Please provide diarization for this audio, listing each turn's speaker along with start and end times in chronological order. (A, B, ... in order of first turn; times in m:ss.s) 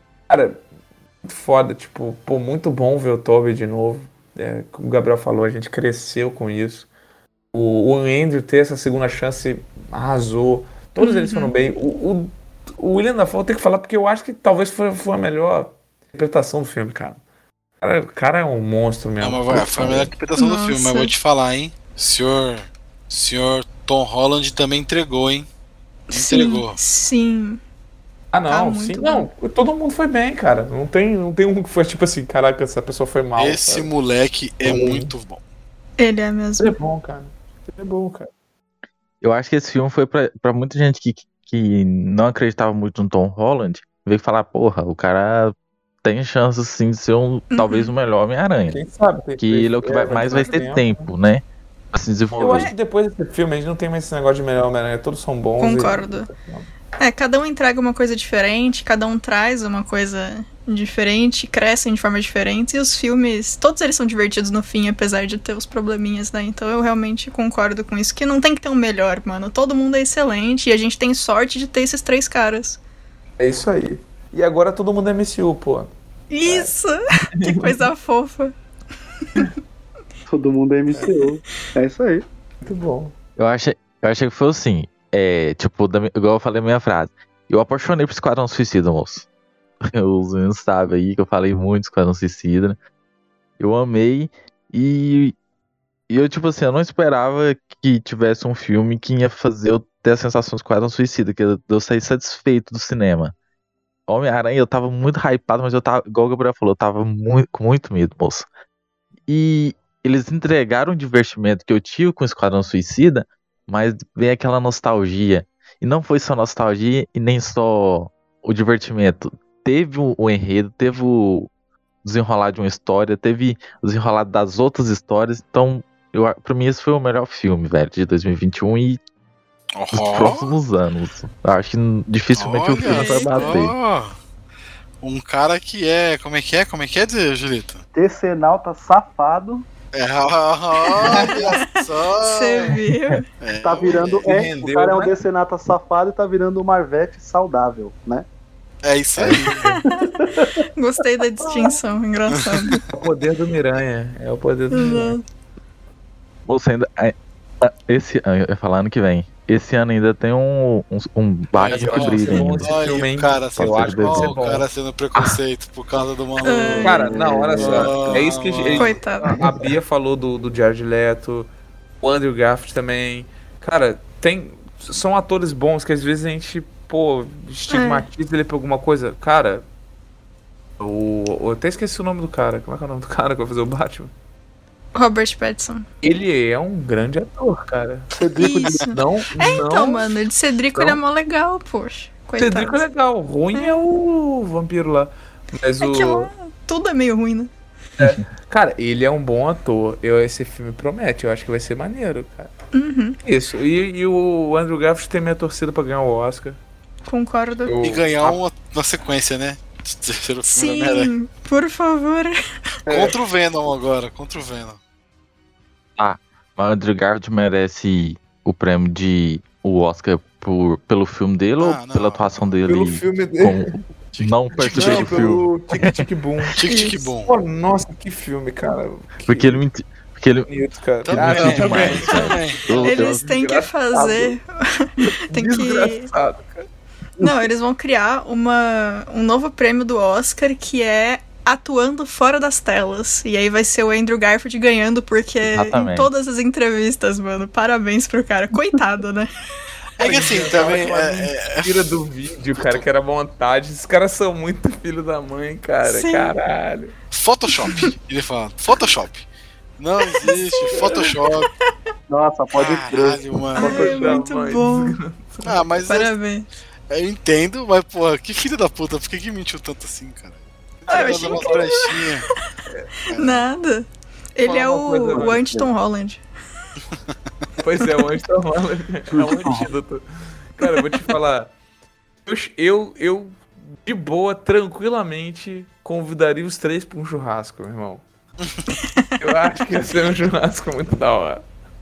0:00.3-0:00.6 A
0:01.2-0:06.9 A
0:07.5-0:17.2 A
0:11.0-0:11.5 B
0:17.8-0:20.1 A
0:19.2-0:25.5 C
0:20.4-0:21.1 B
0:26.1-0:27.6 B
0:26.1-0:26.8 C
0:28.3-0:33.9 A
0:28.5-0:29.3 B
0:33.4-0:35.4 C
0:34.6-0:35.1 A
0:36.0-0:36.8 B
0:36.6-0:38.3 A
0:39.2-0:48.8 D
0:47.5-0:47.9 B
0:48.7-0:51.1 A
0:49.4-0:52.7 D
0:50.2-0:50.6 B
0:52.4-0:56.7 A
0:55.6-0:56.3 B
0:57.0-1:12.8 B
1:13.4-1:15.9 A
1:16.3-1:18.5 B
1:16.4-1:16.7 A
1:17.5-1:17.9 A
1:20.3-1:22.2 E
1:22.6-1:23.1 A
1:23.4-1:29.2 D
1:29.8-1:32.8 D
1:33.6-1:35.3 D
1:36.1-1:43.3 D
1:44.1-1:48.5 D
1:49.3-2:01.5 D
2:02.0-2:09.0 D
2:09.7-2:10.5 C
2:09.9-2:13.7 D
2:12.3-2:14.2 C
2:12.8-2:13.6 B
2:15.0-2:17.8 C
2:17.9-2:19.6 E
2:19.9-2:22.8 C
2:20.8-2:23.2 B
2:21.0-2:21.4 A
2:23.4-2:24.3 C
2:23.6-2:28.2 E
2:24.2-2:25.2 A
2:28.8-2:29.7 C
2:29.3-2:30.1 B
2:29.9-2:30.5 E
2:30.8-2:32.8 B
2:31.4-2:31.8 E
2:32.3-2:32.9 C
2:32.9-2:35.2 A
2:34.7-2:35.2 B
2:36.4-2:42.8 D
2:41.6-2:49.0 C
2:41.6-2:45.4 A
2:43.6-2:44.4 D
2:46.4-2:47.2 B
2:46.4-2:48.3 E
2:46.8-2:51.5 A
2:48.7-2:49.4 B
2:52.0-2:59.6 A
2:57.7-2:58.0 B
3:00.8-3:04.1 A
3:04.9-3:05.8 B
3:06.0-3:08.1 A
3:08.2-3:08.8 E
3:08.2-3:08.9 C
3:08.4-3:12.8 B
3:08.9-3:10.1 A
3:10.7-3:11.0 A
3:12.4-3:16.3 A
3:13.5-3:13.8 B
3:15.8-3:17.5 B
3:18.0-3:22.5 A
3:22.7-3:23.2 B
3:23.2-3:26.6 A
3:27.0-3:27.8 B
3:27.6-3:28.4 A
3:27.8-3:31.1 C
3:30.5-3:32.4 B
3:32.9-3:33.1 A
3:32.9-3:34.8 C
3:36.0-3:46.0 D
3:41.6-3:42.3 C
3:42.7-3:43.7 A
3:44.1-3:45.4 C
3:44.6-3:49.6 A
3:46.6-3:47.3 C
3:49.3-3:50.5 D
3:50.5-3:54.3 A
3:51.0-3:52.7 C
3:51.1-3:53.2 D
3:52.1-3:56.1 B
3:55.0-3:56.6 A
3:57.2-4:09.3 B
4:05.4-4:06.1 D
4:10.0-4:11.8 C
4:10.0-4:16.9 A
4:12.6-4:12.8 C
4:15.8-4:16.4 B
4:17.1-4:19.2 C
4:17.6-4:17.9 B
4:19.8-4:21.5 C
4:20.0-4:21.5 B
4:22.1-4:24.0 E
4:22.5-4:24.1 C
4:23.5-4:25.0 B
4:23.6-4:25.6 A
4:25.4-4:26.1 C
4:25.9-4:26.5 B
4:26.9-4:32.3 C
4:30.8-4:31.6 A
4:30.9-4:32.3 B
4:33.1-4:36.2 B
4:33.1-4:33.4 C
4:34.4-4:35.4 A
4:35.1-4:35.7 E
4:37.6-4:40.0 A
4:39.1-4:39.7 E
4:40.6-4:41.5 A
4:42.2-4:48.0 A
4:49.2-4:51.4 A